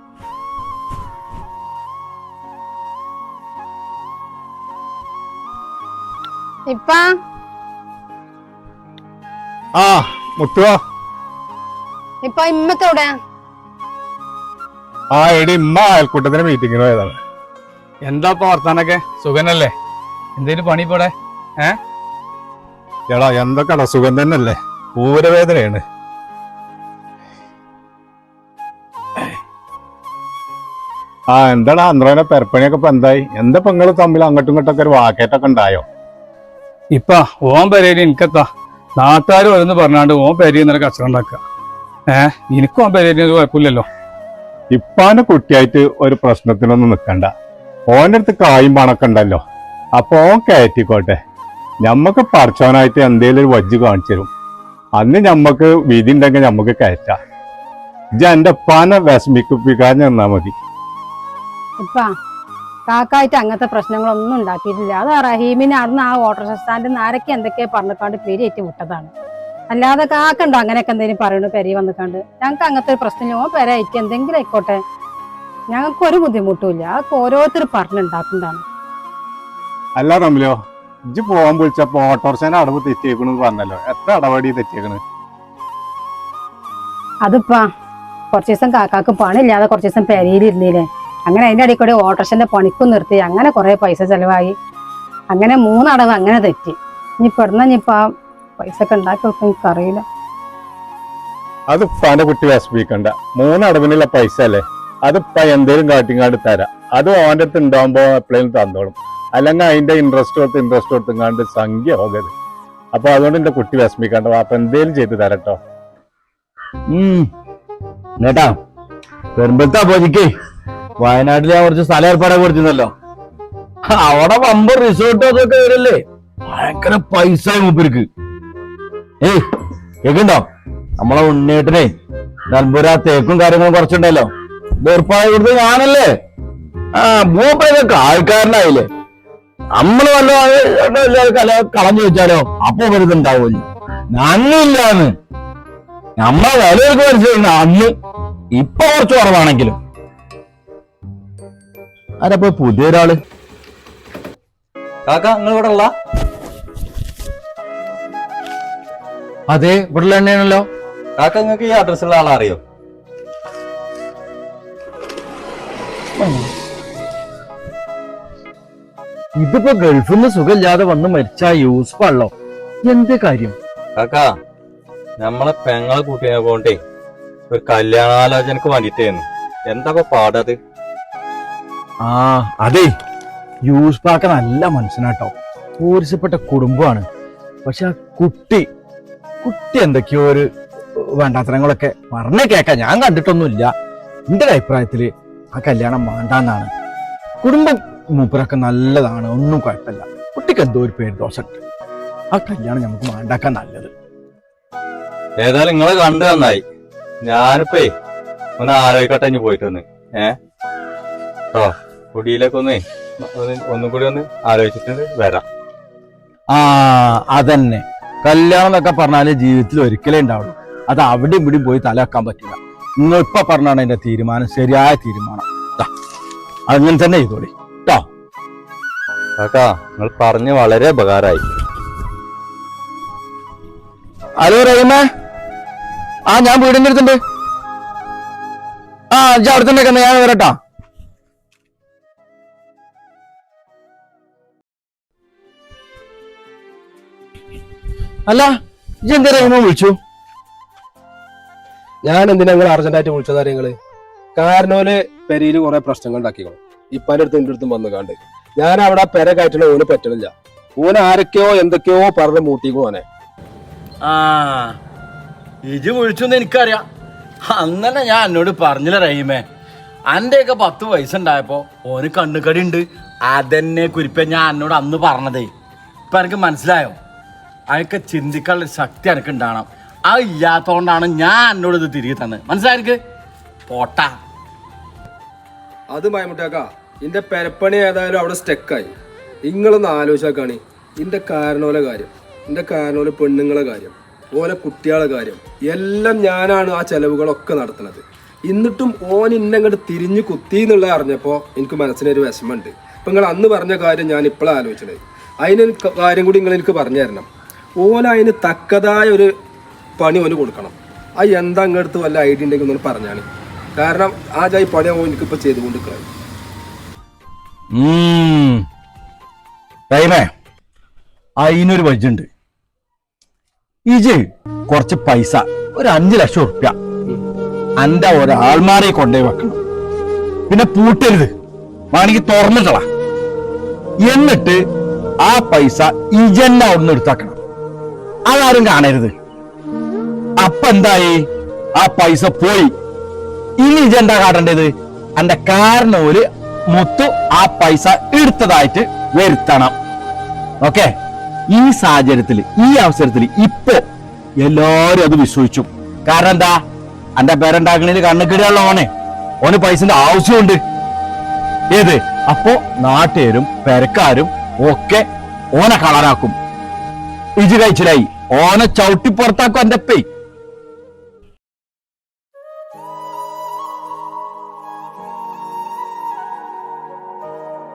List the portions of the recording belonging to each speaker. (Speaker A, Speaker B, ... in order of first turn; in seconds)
Speaker A: 6.7-7.0, 12.2-13.1, 61.8-62.1, 62.9-69.1, 69.7-74.8, 75.7-78.6, 87.2-87.6, 88.3-94.5, 95.3-98.0, 98.6-100.0
Speaker B: 9.7-10.8, 15.1-17.2, 23.1-25.8, 31.3-35.8, 44.7-47.3, 47.9-49.4, 49.9-51.2, 51.8-54.3, 55.0-57.2, 58.1-60.5, 80.0-80.5, 81.1-85.0, 101.7-112.3, 112.9-115.6
Speaker C: 18.0-19.7, 20.4-21.8, 36.9-41.4, 42.1-43.9, 264.1-264.6, 265.7-266.8, 267.6-269.4, 270.1-272.8, 273.3-275.4, 276.1-276.9, 277.7-282.9, 283.7-284.1
Speaker D: 116.9-117.3, 118.2-118.6, 119.3-120.3, 121.0-122.9, 123.9-128.1, 130.0-130.4, 131.0-131.9, 132.5-134.3, 134.8-136.1, 136.9-138.9, 139.7-145.1, 146.2-147.9, 148.5-149.8, 152.2-153.2, 159.5-160.7, 166.2-166.4, 169.4-172.3, 172.8-173.6, 182.0-182.9, 183.6-187.0, 187.6-188.7, 189.4-193.7, 194.3-196.7, 197.4-201.6, 202.3-203.9, 216.5-225.9, 226.7-228.0, 234.4-235.0, 236.3-237.2, 239.1-240.6, 248.3-250.0, 317.7-318.6, 319.9-320.3, 321.4-322.3, 323.9-326.7, 327.8-329.6, 330.5-331.3, 331.9-332.9, 334.0-334.6, 335.2-337.4, 338.2-339.1, 340.4-342.7, 343.6-349.7, 350.6-350.9, 351.5-353.8, 354.4-356.6, 357.2-358.9, 359.4-360.6, 361.7-366.3, 367.4-370.0
Speaker E: 155.1-155.9, 161.2-162.6, 173.9-174.2, 175.2-176.8, 177.5-180.6, 205.4-206.6, 207.2-207.9, 208.6-210.3, 211.5-212.8, 213.3-215.4, 229.4-231.5
Speaker F: 252.0-253.7, 254.3-263.0, 285.9-288.9, 289.4-307.3, 307.8-309.3, 310.0-316.1